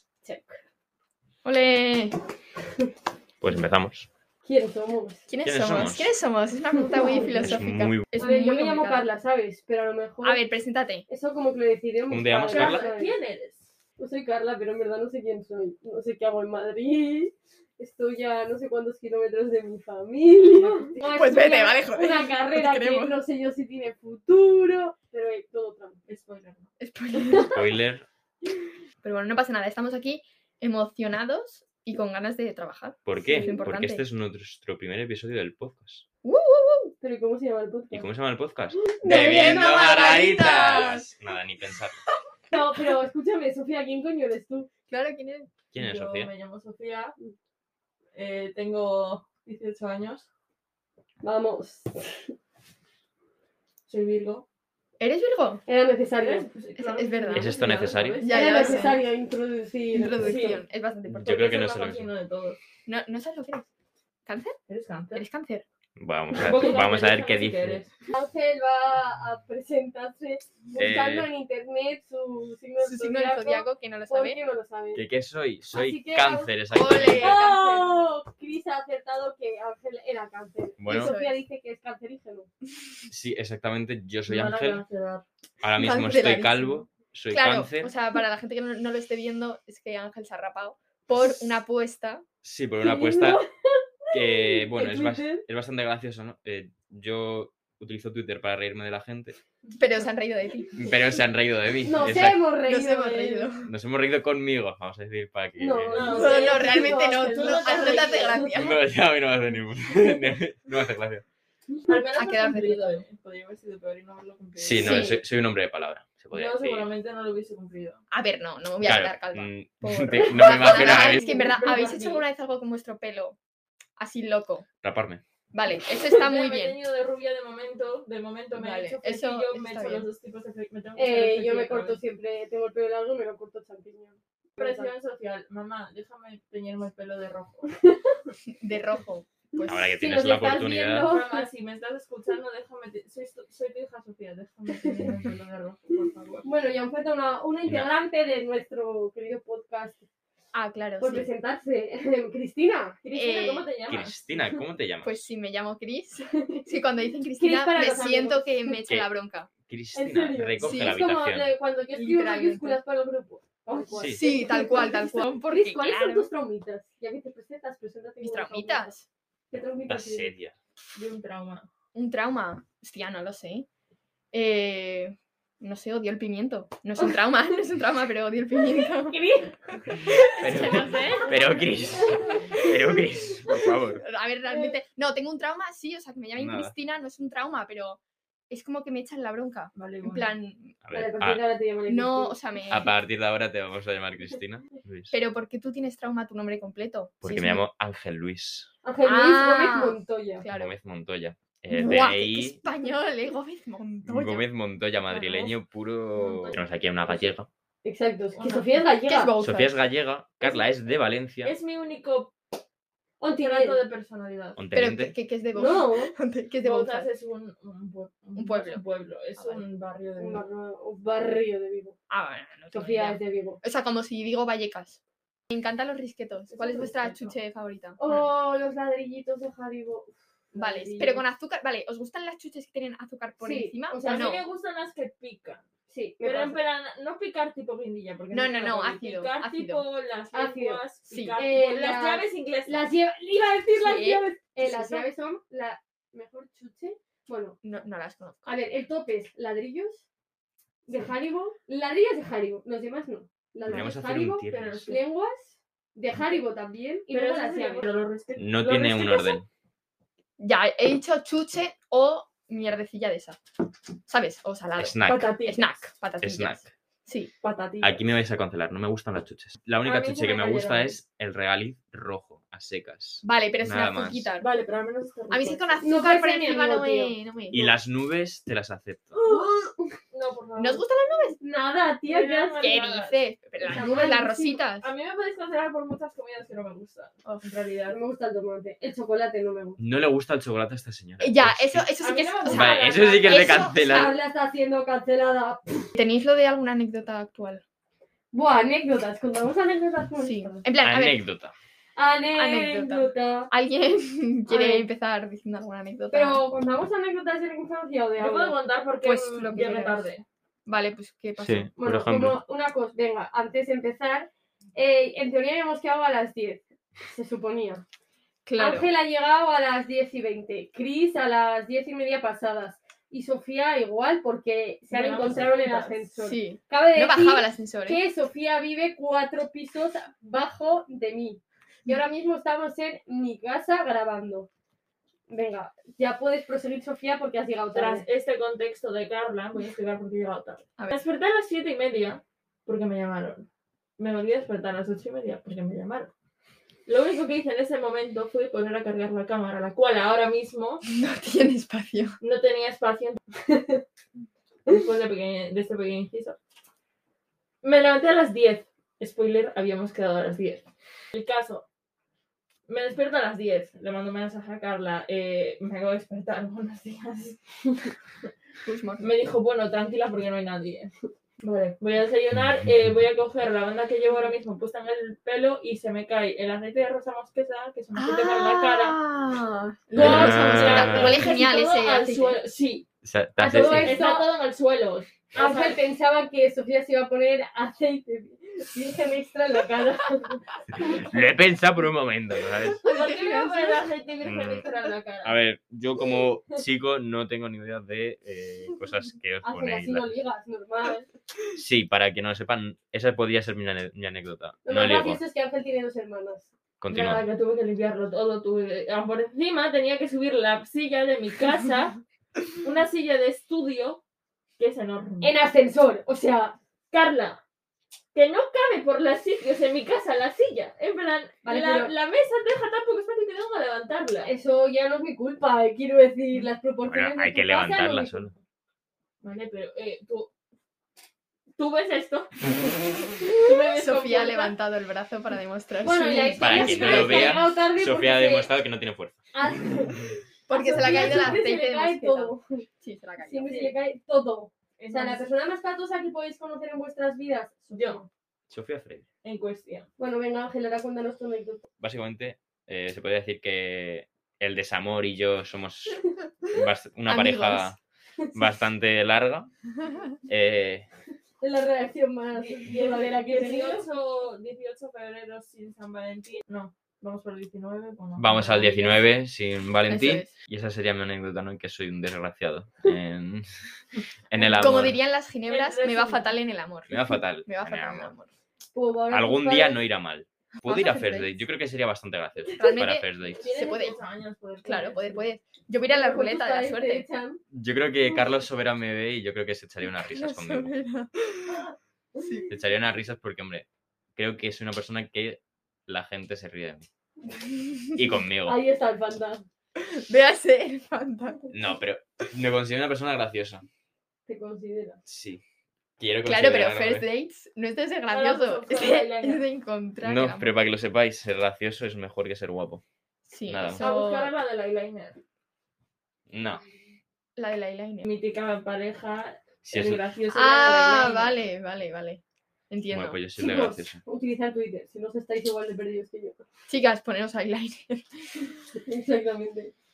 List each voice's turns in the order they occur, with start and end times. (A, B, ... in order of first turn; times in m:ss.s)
0:00.2-0:00.6 A
0:01.4-0:02.2 B
0:03.4-0:04.1 C
0:04.4-0:05.3 A
0:05.3-0:09.1 B
0:05.4-0:06.2 C
0:06.8-0:07.6 A
0:07.4-0:08.1 C
0:08.2-0:10.4 A
0:10.2-0:11.1 B
0:11.1-0:13.2 A
0:12.1-0:12.9 C
0:12.5-0:13.7 D
0:14.0-0:26.0 A
0:20.6-0:20.9 D
0:21.1-0:23.2 B
0:26.1-0:26.7 D
0:26.8-0:27.7 B
0:27.2-0:27.5 A
0:27.5-0:28.1 C
0:29.0-0:34.0 B
0:33.1-0:36.0 C
0:33.2-0:33.6 A
0:36.2-0:36.9 B
0:37.0-0:38.1 A
0:37.9-0:42.0 C
0:38.8-0:40.8 A
0:39.1-0:41.1 B
0:42.5-0:44.7 A
0:44.9-0:45.5 B
0:45.7-0:46.3 C
0:45.7-0:47.2 D
0:48.2-0:50.3 D
0:51.2-0:52.3 A
0:53.9-0:54.4 D
0:55.0-0:55.6 B
0:55.7-0:56.5 A
0:56.2-0:59.0 D
0:56.8-0:57.5 B
0:57.3-0:58.2 C
0:58.2-0:59.0 B
0:58.3-1:00.6 A
0:59.9-1:01.4 B
1:00.2-1:00.6 D
1:01.1-1:02.1 C
1:01.2-1:02.6 D
1:02.9-1:03.7 B
1:04.3-1:04.6 B
1:04.7-1:05.2 D
1:05.1-1:05.6 B
1:06.0-1:07.8 C
1:06.3-1:08.0 D
1:08.1-1:15.0 A
1:10.8-1:11.3 C
1:12.8-1:14.4 B
1:15.0-1:17.4 C
1:15.7-1:16.5 A
1:16.7-1:18.0 B
1:17.1-1:22.5 A
1:20.8-1:21.1 C
1:20.9-1:21.4 B
1:23.1-1:24.8 C
1:24.3-1:25.2 D
1:25.6-1:27.9 C
1:25.7-1:32.2 B
1:32.4-1:33.4 C
1:32.8-1:35.4 A
1:34.1-1:39.4 C
1:39.8-1:40.9 B
1:40.8-1:42.4 C
1:41.8-1:43.5 A
1:42.7-1:43.7 B
1:43.6-1:46.2 C
1:45.6-1:48.5 A
1:45.9-1:48.6 D
1:46.1-1:48.8 B
1:48.5-1:51.3 C
1:51.9-1:55.1 D
1:52.1-1:53.0 B
1:54.6-1:56.9 C
1:54.7-1:55.2 B
1:56.3-1:58.0 D
1:58.1-2:03.4 B
1:58.8-2:01.3 C
2:00.5-2:02.2 D
2:04.0-2:04.7 B
2:04.8-2:05.2 C
2:05.5-2:06.8 B
2:05.9-2:12.0 D
2:08.5-2:10.1 B
2:11.0-2:14.9 A
2:14.6-2:17.7 D
2:18.5-2:20.0 B
2:19.6-2:21.5 A
2:19.7-2:21.2 C
2:21.0-2:26.5 D
2:26.4-2:30.1 A
2:30.5-2:31.3 B
2:31.0-2:33.0 A
2:33.0-2:34.2 D
2:33.2-2:33.7 B
2:33.9-2:35.3 C
2:35.0-2:39.5 B
2:36.3-2:36.7 A
2:37.4-2:38.8 A
2:39.7-2:41.5 C
2:39.9-2:49.0 A
2:40.6-2:41.0 B
2:41.9-2:42.8 B
2:43.7-2:44.7 D
2:44.0-2:44.2 C
2:44.1-2:46.3 B
2:48.2-2:49.0 B
2:49.5-2:50.3 A
2:49.9-2:50.6 C
2:51.0-2:51.7 D
2:52.0-2:53.7 B
2:54.3-2:59.2 B
2:58.6-3:03.0 A
3:00.1-3:04.0 C
3:00.4-3:01.4 B
3:00.6-3:01.3 D
3:03.9-3:10.8 B
3:06.4-3:06.7 C
3:09.7-3:10.3 D
3:10.8-3:11.4 C
3:10.9-3:12.4 A
3:11.9-3:12.9 B
3:12.7-3:15.2 C
3:15.1-3:17.6 B
3:17.2-3:18.7 C
3:18.8-3:20.5 A
3:19.0-3:20.8 B
3:20.5-3:22.6 C
3:21.7-3:24.5 B
3:24.0-3:27.5 C
3:26.2-3:27.2 D
3:27.8-3:29.3 A
3:28.4-3:28.8 D
3:29.0-3:29.7 B
3:29.4-3:31.6 C
3:31.4-3:32.4 D
3:33.2-3:33.8 A
3:33.4-3:34.6 D
3:34.6-3:35.2 C
3:34.7-3:37.1 B
3:35.6-3:36.1 A
3:36.6-3:40.4 D
3:38.4-3:38.8 B
3:39.4-3:39.6 B
3:40.2-3:42.0 A
3:42.1-3:48.3 B
3:42.7-3:43.6 A
3:46.5-3:47.3 D
3:48.0-3:51.2 A
3:50.6-3:54.4 B
3:53.4-3:54.3 A
3:54.0-3:55.6 D
3:55.9-3:56.6 A
3:56.2-4:02.9 D
3:58.3-3:59.8 B
4:00.3-4:07.6 A
4:01.1-4:01.4 B
4:03.8-4:05.0 B
4:07.6-4:08.6 B
4:08.5-4:10.0 A
4:10.9-4:17.9 A
4:13.7-4:15.0 C
4:14.5-4:14.8 D
4:17.1-4:19.4 D
4:18.4-4:19.5 C
4:20.4-4:23.4 B
4:24.1-4:27.3 B
4:24.8-4:25.3 C
4:25.0-4:25.8 D
4:26.2-4:26.7 C
4:27.4-4:28.0 D
4:27.8-4:34.3 C
4:29.8-4:31.0 D
4:33.2-4:34.5 B
4:34.4-4:35.8 D
4:35.3-4:37.7 B
4:35.8-4:37.2 A
4:37.5-4:39.1 C
4:39.1-4:39.6 D
4:39.2-4:40.0 A
4:40.1-4:40.8 D
4:40.6-4:41.4 B
4:41.4-4:42.6 A
4:42.1-4:44.1 D
4:42.6-4:44.9 B
4:43.6-4:44.6 A
4:44.8-4:48.0 D
4:47.9-4:49.8 A
4:49.8-4:51.9 C
4:51.2-4:54.1 B
4:52.0-4:53.6 D
4:52.5-4:54.1 C
4:53.4-4:55.9 A
4:56.0-4:57.6 B
4:58.3-5:00.7 A
5:00.2-5:01.2 B
5:00.8-5:01.6 C
5:02.0-5:03.5 A
5:02.4-5:06.5 B
5:04.5-5:04.9 A
5:06.1-5:08.6 A
5:08.2-5:10.2 D
5:09.0-5:10.1 B
5:10.7-5:11.7 B
5:11.4-5:12.4 C
5:11.8-5:17.8 A
5:18.5-5:18.9 B
5:18.6-5:34.5 A
5:24.9-5:26.1 D
5:26.2-5:28.0 B
5:35.3-5:38.1 A
5:37.7-5:43.5 D
5:44.0-5:46.1 D
5:46.9-5:50.8 D
5:50.9-5:52.2 B
5:52.2-5:53.6 D
5:54.7-5:56.4 D
5:57.6-6:01.7 D
6:02.7-6:07.9 D
6:08.6-6:09.1 B
6:09.0-6:19.0 D
6:18.0-6:22.4 B
6:20.0-6:21.3 C
6:20.0-6:22.9 D
6:23.0-6:24.0 C
6:23.4-6:24.3 A
6:23.6-6:23.8 B
6:23.7-6:25.8 D
6:25.4-6:31.0 A
6:30.9-6:32.8 C
6:32.8-6:33.9 B
6:32.9-6:35.4 D
6:34.2-6:34.7 C
6:35.2-6:40.1 C
6:39.4-6:41.1 A
6:41.6-6:45.2 C
6:44.6-6:46.5 A
6:46.8-6:47.3 C
6:46.9-6:52.0 D
6:52.6-6:54.0 D
6:54.6-6:55.3 D
6:55.2-6:56.6 A
6:56.9-6:57.4 D
6:58.1-7:04.3 D
7:01.4-7:01.9 A
7:04.3-7:08.4 A
7:06.9-7:08.3 C
7:09.2-7:10.3 D
7:11.6-7:14.5 D
7:13.5-7:17.4 B
7:15.8-7:18.5 A
7:16.4-7:19.2 C
7:19.3-7:22.6 A
7:20.5-7:23.7 B
7:23.2-7:28.1 A
7:24.8-7:25.3 D
7:27.7-7:28.0 D
7:28.5-7:29.1 C
7:29.2-7:29.9 D
7:30.0-7:31.7 A
7:31.8-7:37.8 C
7:37.1-7:37.7 B
7:38.3-7:39.5 C
7:40.3-7:40.9 C
7:41.4-7:43.9 A
7:42.3-7:48.9 D
7:48.2-7:53.7 C
7:48.3-7:48.8 B
7:49.9-7:50.4 B
7:54.3-7:55.0 C
7:54.4-7:58.3 B
7:55.5-7:56.3 D
7:56.9-7:58.1 C
7:58.7-7:59.8 A
7:59.1-8:03.4 C
8:00.6-8:01.4 B
8:02.5-8:04.0 B
8:03.4-8:05.2 D
8:03.6-8:04.0 A
8:04.6-8:07.1 B
8:05.9-8:07.4 A
8:07.5-8:10.8 C
8:10.1-8:11.6 B
8:12.2-8:12.5 B
8:12.5-8:16.9 C
8:17.4-8:18.0 B
8:18.0-8:18.6 C
8:18.5-8:19.5 A
8:19.9-8:21.5 B
8:21.5-8:23.7 C
8:24.3-8:25.0 A
8:25.0-8:25.4 C
8:26.0-8:27.1 C
8:26.2-8:30.6 B
8:28.1-8:29.5 D
8:30.0-8:32.8 C
8:33.3-8:34.3 B
8:33.5-8:33.9 C
8:33.8-8:35.2 D
8:36.3-8:36.6 C
8:37.4-8:38.1 B
8:38.0-8:41.4 D
8:39.6-8:40.0 C
8:40.3-8:43.2 B
8:42.9-8:44.0 C
8:43.4-8:46.4 A
8:46.7-8:48.6 B
8:48.8-8:49.7 A